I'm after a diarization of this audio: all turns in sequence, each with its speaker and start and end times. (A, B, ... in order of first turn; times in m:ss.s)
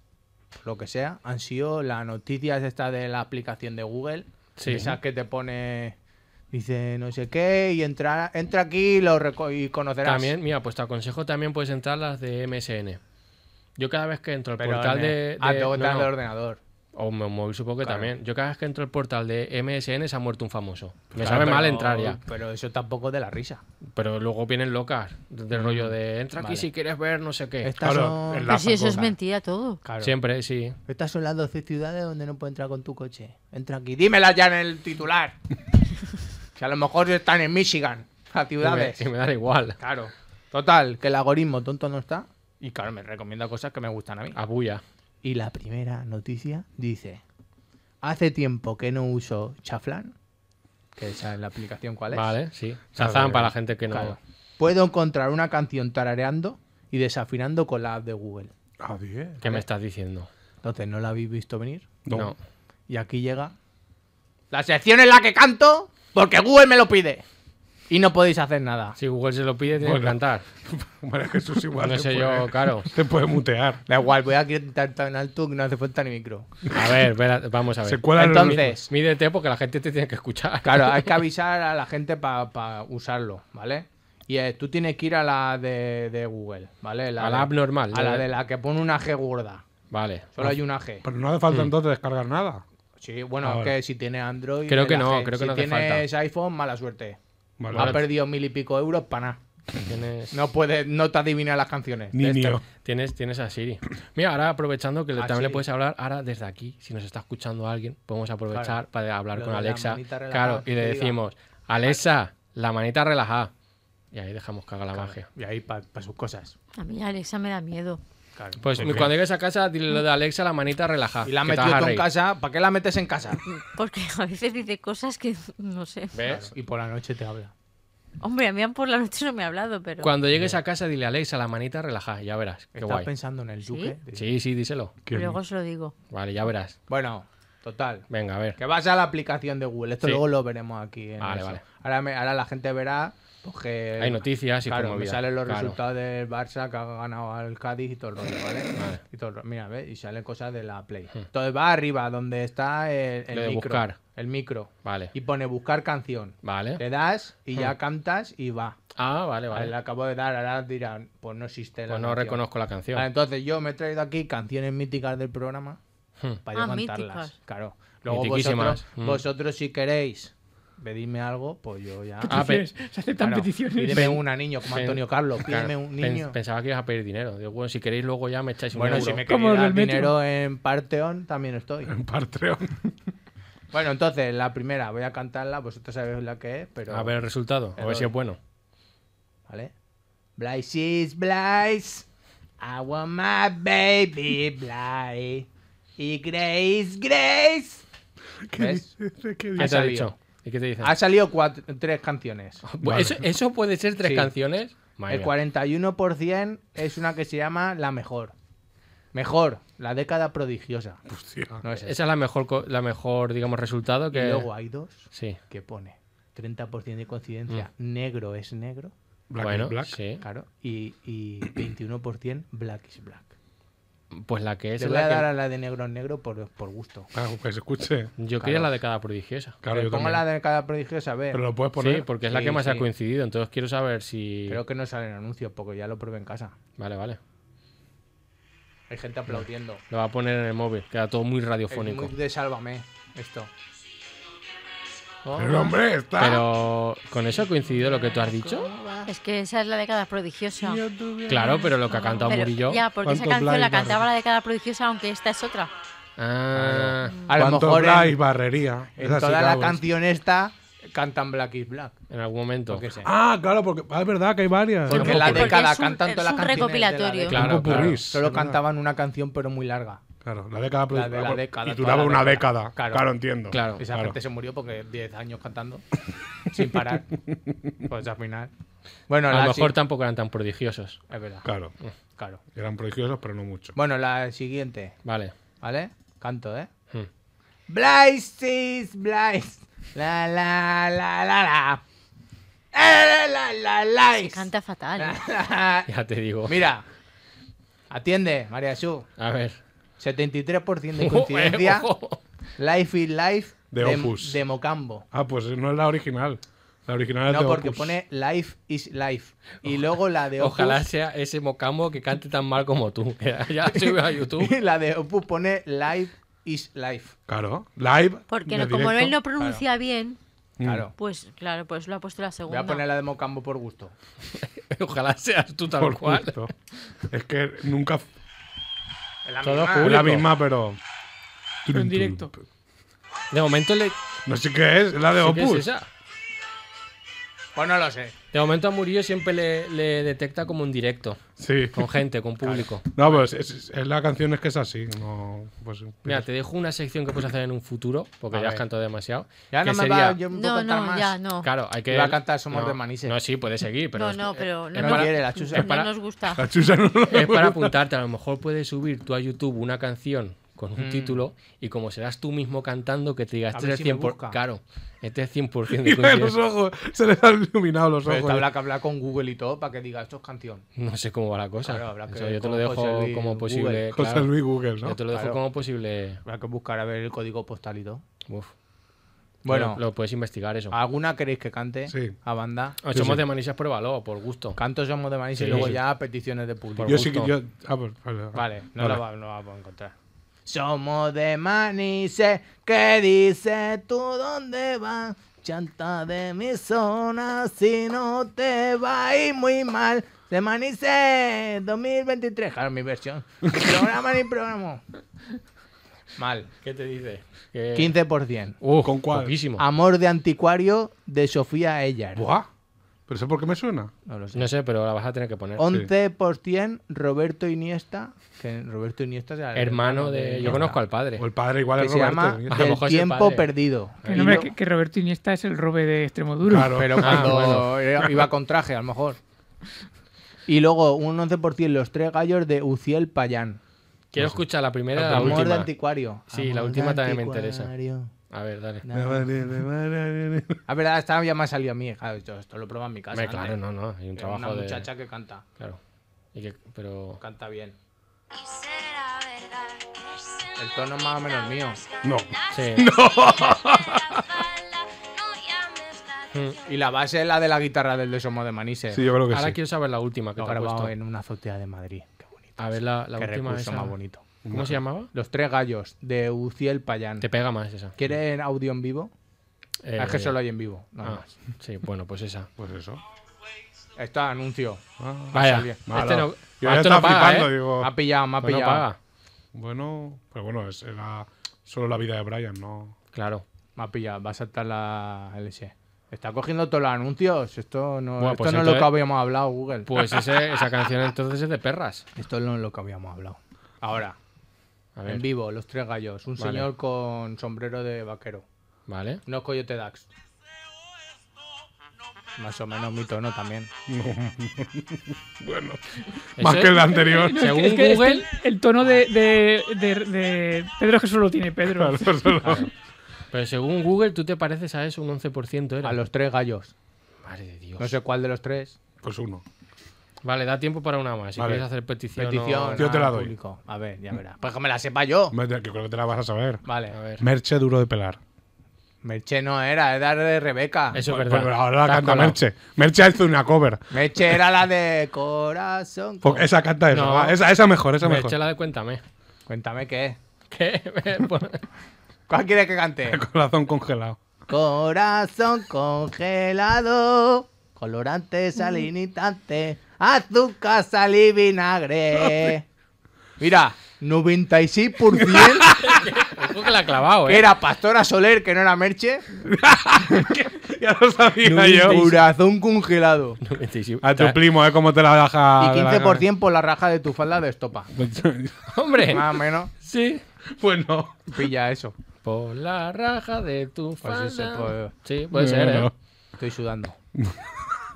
0:00.6-0:06.0 A
0:04.6-0:05.0 B
0:06.5-0:10.4 A
0:10.0-0:13.0 B
0:13.8-0:16.1 B
0:14.6-0:16.6 A
0:16.9-0:22.2 B
0:17.8-0:18.1 A
0:21.2-0:23.6 A
0:23.9-0:27.7 B
0:25.5-0:26.7 A
0:27.6-0:29.0 A
0:27.8-0:29.1 C
0:28.4-0:29.8 D
0:29.8-0:30.1 A
0:30.0-0:30.8 B
0:30.9-0:35.4 A
0:36.5-0:39.1 A
0:38.6-0:39.8 B
0:39.8-0:44.4 A
0:44.3-0:44.8 B
0:45.2-0:47.2 A
0:48.0-0:50.1 A
0:51.0-0:52.3 A
0:52.1-0:54.2 B
0:53.0-0:58.5 A
0:58.8-0:59.4 C
0:59.4-1:00.3 B
1:00.6-1:01.9 A
1:02.0-1:02.3 C
1:02.1-1:02.4 B
1:02.9-1:03.5 A
1:04.5-1:07.2 A
1:07.9-1:09.0 A
1:09.0-1:10.4 B
1:09.8-1:13.8 C
1:11.8-1:12.9 B
1:13.9-1:16.5 A
1:16.7-1:21.2 B
1:17.8-1:18.7 C
1:18.1-1:18.9 A
1:20.6-1:29.6 A
1:27.2-1:28.2 B
1:29.9-1:30.3 B
1:30.3-1:31.0 A
1:30.4-1:32.6 C
1:33.0-1:37.2 A
1:33.4-1:33.8 C
1:34.7-1:36.1 B
1:37.6-1:38.0 C
1:37.7-1:39.4 A
1:37.7-1:38.0 B
1:39.8-1:40.3 B
1:40.3-1:42.6 A
1:42.1-1:42.6 C
1:42.8-1:53.5 B
1:45.2-1:45.6 A
1:48.5-1:48.8 A
1:49.3-1:51.2 A
1:54.1-1:55.3 B
1:54.9-1:56.5 A
1:56.8-1:58.0 D
1:58.4-1:59.0 A
1:58.6-2:02.0 B
1:58.8-1:59.1 C
2:01.2-2:03.4 A
2:03.5-2:06.2 D
2:06.1-2:06.5 B
2:06.2-2:07.5 A
2:08.2-2:10.1 D
2:10.0-2:13.1 B
2:12.7-2:14.3 A
2:13.6-2:13.9 D
2:14.1-2:14.9 B
2:15.0-2:15.4 C
2:15.1-2:15.9 D
2:16.1-2:16.8 B
2:16.9-2:38.8 A
2:18.1-2:18.6 B
2:21.2-2:21.6 B
2:24.0-2:25.8 B
2:28.7-2:29.0 B
2:33.3-2:34.0 B
2:34.8-2:35.1 B
2:36.4-2:36.8 B
2:39.0-2:39.7 B
2:39.5-2:42.4 A
2:41.9-2:43.1 B
2:42.9-2:45.8 A
2:46.4-2:52.5 A
2:46.5-2:47.3 D
2:48.1-2:49.2 B
2:52.2-2:54.2 E
2:52.3-2:52.7 B
2:53.2-2:56.4 A
2:53.9-2:59.2 B
2:58.7-3:01.9 A
2:59.2-3:00.1 E
3:01.9-3:02.8 C
3:03.7-3:07.2 A
3:06.9-3:08.4 B
3:07.8-3:08.1 A
3:09.5-3:09.7 A
3:10.4-3:12.0 A
3:12.6-3:17.8 A
3:18.4-3:19.8 C
3:18.6-3:18.9 A
3:19.5-3:20.1 A
3:19.6-3:20.9 B
3:20.8-3:22.6 A
3:22.6-3:25.3 B
3:22.8-3:23.3 C
3:24.0-3:24.3 A
3:25.1-3:28.3 A
3:29.1-3:31.0 A
3:31.1-3:31.6 C
3:31.6-3:32.0 A
3:31.7-3:34.5 B
3:34.1-3:38.9 A
3:35.1-3:35.4 B
3:39.3-3:40.0 C
3:39.4-3:40.2 B
3:40.2-3:43.3 A
3:44.1-3:45.3 B
3:44.8-3:47.1 A
3:47.1-3:48.1 C
3:48.2-3:49.6 B
3:48.4-3:48.7 A
3:49.6-3:50.2 C
3:49.7-3:51.4 A
3:51.3-3:52.1 C
3:51.8-3:54.6 B
3:52.3-3:52.9 A
3:54.5-3:56.5 A
3:56.8-3:57.2 B
3:58.9-3:59.8 A
3:59.3-4:02.1 B
4:01.7-4:03.5 A
4:05.2-4:05.7 A
4:05.3-4:06.5 C
4:06.2-4:08.7 B
4:07.3-4:09.1 A
4:09.0-4:10.8 D
4:10.6-4:11.8 C
4:11.3-4:12.8 B
4:11.4-4:15.7 D
4:13.0-4:14.0 C
4:16.2-4:17.3 B
4:16.5-4:18.2 A
4:17.3-4:19.9 C
4:19.0-4:22.0 A
4:22.1-4:22.8 B
4:22.7-4:23.1 A
4:23.0-4:25.5 C
4:24.9-4:30.0 A
4:24.9-4:27.5 D
4:25.0-4:25.4 B
4:27.3-4:28.0 B
4:27.3-4:28.6 C
4:30.2-4:34.2 C
4:30.9-4:33.1 A
4:33.5-4:33.8 B
4:33.8-4:35.8 A
4:36.5-4:37.1 A
4:37.8-4:38.5 A
4:39.1-4:39.7 A
4:39.3-4:41.0 B
4:41.1-4:41.4 A
4:41.4-4:41.7 C
4:42.2-4:42.4 A
4:42.5-4:43.7 C
4:43.7-4:45.0 A
4:45.0-4:45.3 B
4:45.6-4:46.7 A
4:47.7-4:51.8 A
4:52.7-4:55.9 A
4:54.3-4:55.2 D
4:55.9-4:56.6 B
4:56.5-4:56.8 A
4:57.9-4:59.1 A
4:59.2-4:59.6 B
5:00.0-5:01.9 A
5:01.0-5:02.2 B
5:02.6-5:05.0 A
5:03.7-5:04.4 C
5:05.1-5:08.0 C
5:07.3-5:10.8 A
5:10.4-5:14.5 B
5:13.8-5:17.1 A
5:17.3-5:19.2 C
5:18.3-5:20.2 D
5:20.6-5:20.9 C
5:20.6-5:20.9 A
5:21.0-5:22.8 D
5:22.5-5:23.9 A
5:24.4-5:26.5 B
5:25.7-5:26.5 C
5:27.1-5:28.0 C
5:29.2-5:30.1 A
5:29.4-5:30.3 B
5:29.8-5:30.8 C
5:31.6-5:32.4 C
5:31.7-5:32.3 E
5:33.3-5:34.0 B
5:34.2-5:35.7 C
5:35.2-5:35.9 B
5:37.5-5:38.1 A
5:38.3-5:41.2 B
5:41.4-5:41.9 C
5:41.7-5:43.0 B
5:42.4-5:42.7 A
5:42.9-5:46.2 C
5:46.0-5:50.2 B
5:48.3-5:48.6 A
5:49.5-5:51.1 A
5:50.3-5:51.5 D
5:51.4-5:55.9 B
5:51.9-5:53.2 A
5:53.9-5:56.5 D
5:54.7-5:55.7 A
5:56.3-5:57.8 C
5:57.1-6:06.4 B
6:00.8-6:01.2 A
6:03.5-6:04.4 A
6:05.7-6:08.5 C
6:08.0-6:10.6 A
6:10.8-6:16.2 B
6:11.6-6:13.9 A
6:13.9-6:15.0 C
6:15.1-6:15.4 A
6:16.2-6:18.0 A
6:19.4-6:19.8 A
6:19.4-6:20.8 B
6:20.7-6:22.8 A
6:21.9-6:22.2 C
6:22.8-6:24.6 B
6:22.9-6:23.2 C
6:24.6-6:27.1 A
6:25.3-6:25.8 B
6:25.4-6:25.7 C
6:26.8-6:27.3 B
6:26.8-6:29.0 C
6:28.3-6:29.9 A
6:30.4-6:44.8 A
6:46.2-6:46.5 A
6:46.6-6:47.9 B
6:47.7-6:48.6 A
6:48.6-6:49.6 B
6:48.8-6:49.3 C
6:49.6-6:52.2 A
6:52.1-6:52.5 C
6:53.1-6:53.9 C
6:54.0-6:54.5 A
6:54.3-6:55.6 B
6:55.6-7:00.8 A
6:59.5-7:01.2 B
7:01.2-7:02.8 C
7:01.8-7:04.5 A
7:02.5-7:03.5 B
7:04.0-7:04.5 B
7:04.0-7:06.8 E
7:06.4-7:08.3 C
7:06.7-7:09.2 A
7:07.0-7:07.7 B
7:10.5-7:13.6 A
7:14.1-7:15.7 B
7:14.2-7:14.4 C
7:14.9-7:15.5 C
7:15.0-7:18.1 A
7:16.3-7:17.7 B
7:18.3-7:18.8 B
7:18.8-7:19.4 A
7:18.9-7:20.6 C
7:20.7-7:23.6 A
7:23.1-7:24.9 B
7:24.2-7:25.4 A
7:26.3-7:27.2 B
7:27.2-7:27.8 A
7:30.6-7:31.8 A
7:32.0-7:34.4 C
7:32.5-7:32.9 B
7:36.3-7:36.6 B
7:36.6-7:39.0 A
7:38.9-7:39.6 C
7:39.3-7:40.9 B
7:40.4-7:44.2 A
7:42.6-7:44.0 B
7:44.4-7:44.8 C
7:44.5-7:45.1 B
7:45.1-7:47.3 A
7:47.2-7:47.9 B
7:48.0-7:49.1 A
7:49.8-7:50.4 B
7:50.0-7:51.3 A
7:51.0-7:52.5 B
7:52.6-7:53.0 C
7:54.0-7:54.8 A
7:55.0-7:57.9 C
7:55.3-7:57.6 B
7:55.3-7:55.8 A
7:57.8-7:58.9 A
7:58.4-7:59.0 B
7:59.5-8:02.9 C
8:03.1-8:03.4 B
8:03.8-8:10.3 A
8:08.2-8:09.0 B
8:09.8-8:12.0 B
8:12.2-8:14.2 A
8:15.0-8:15.2 B
8:15.0-8:18.4 A
8:16.4-8:16.7 B
8:18.9-8:19.2 B
8:19.2-8:20.1 A
8:22.4-8:23.7 A
8:23.9-8:27.5 C
8:26.4-8:28.2 B
8:26.9-8:32.5 E
8:31.6-8:32.7 C
8:33.3-8:36.0 B
8:35.8-8:36.7 A
8:37.2-8:37.9 B
8:37.8-8:38.8 A
8:39.0-8:39.4 C
8:40.2-8:42.9 B
8:41.4-8:41.7 C
8:42.2-8:45.4 A
8:42.7-8:43.3 C
8:45.3-8:46.6 C
8:46.6-8:47.0 A
8:46.9-8:47.2 B
8:47.2-8:48.2 C
8:49.0-8:51.0 A
8:50.9-8:52.4 B
8:51.0-8:54.4 C
8:53.9-8:56.4 A
8:56.2-8:58.4 C
8:56.9-8:57.4 B
8:58.0-8:59.0 B
8:59.5-9:00.2 A
9:00.5-9:01.6 B
9:02.3-9:03.2 A
9:03.1-9:04.2 C
9:04.5-9:12.6 A
9:13.4-9:15.7 A
9:15.1-9:16.1 C
9:15.7-9:17.5 B
9:17.2-9:19.2 A
9:19.4-9:22.2 C
9:21.4-9:23.4 A
9:21.9-9:22.1 B
9:23.4-9:24.4 B
9:24.0-9:26.2 C
9:25.6-9:27.9 A
9:27.9-9:28.6 C
9:28.7-9:30.2 B
9:29.1-9:29.7 A
9:30.4-9:31.5 C
9:31.3-9:32.0 A
9:32.2-9:35.9 B
9:34.0-9:34.9 A
9:35.3-9:35.9 C
9:36.4-9:37.0 A
9:37.1-9:37.6 C